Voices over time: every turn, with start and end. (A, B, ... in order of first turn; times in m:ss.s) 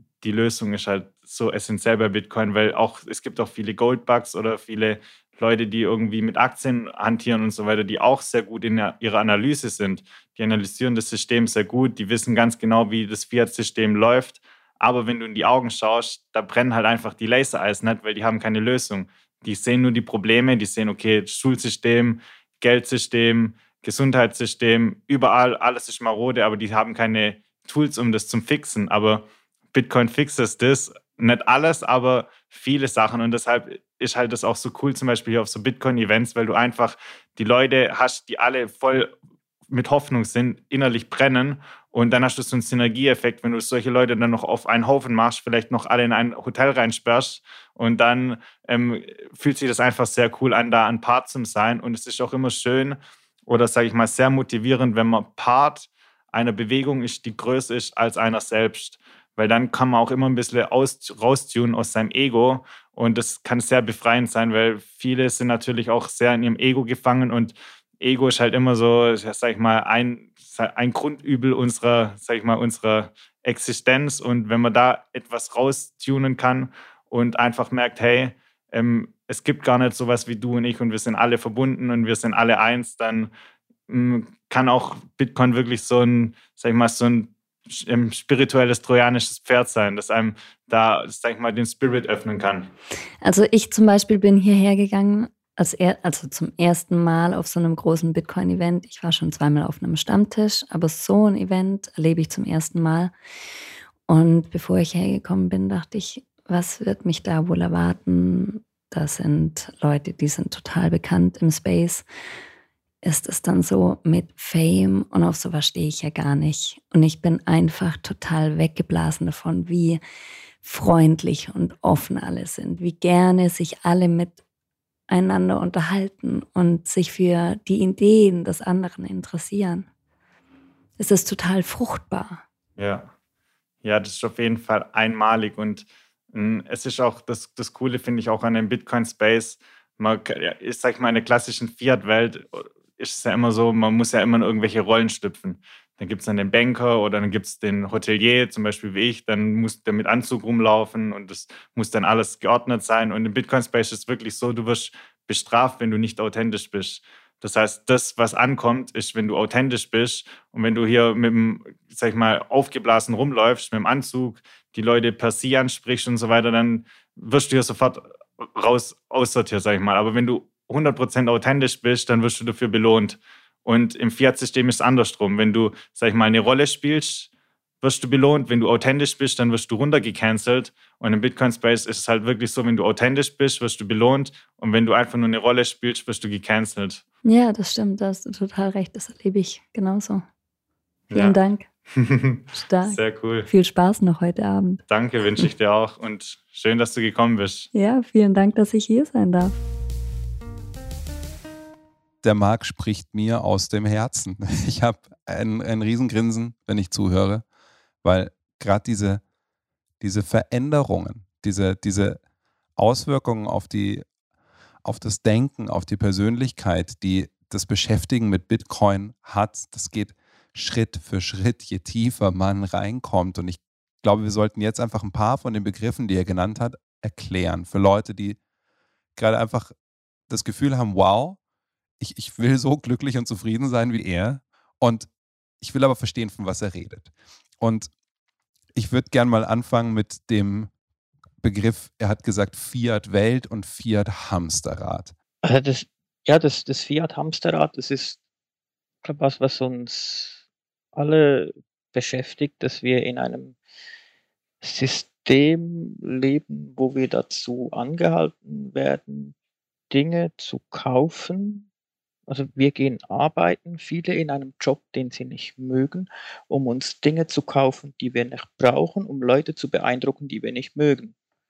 0:00.2-0:39.1 A
0:39.7-1:23.3 A
1:23.9-1:32.7 A
1:33.2-1:43.1 B
1:44.1-1:52.1 B
1:53.0-2:00.0 B
2:00.6-2:04.4 B
2:05.1-2:09.9 B
2:11.0-2:12.4 B
2:12.8-2:13.1 A
2:13.8-2:57.3 A
2:57.8-3:07.0 A
3:07.2-3:10.2 B
3:11.1-3:11.4 A
3:11.1-3:11.7 B
3:12.0-3:13.5 A
3:12.5-3:14.8 B
3:14.9-3:17.7 A
3:17.7-3:19.6 B
3:22.2-3:27.4 C
3:28.0-3:29.2 C
3:30.0-3:32.2 C
3:32.8-3:34.0 C
3:34.8-3:48.4 C
3:49.2-3:49.7 C
3:50.3-3:51.4 C
3:52.0-3:55.1 C
3:55.6-3:57.1 C
3:57.6-3:57.9 C
3:58.8-4:00.7 C
4:01.4-4:05.1 C
4:05.4-4:08.2 D
4:09.0-4:10.4 D
4:11.0-4:13.6 D
4:14.6-4:19.4 D
4:19.9-4:21.7 D
4:22.3-4:31.1 D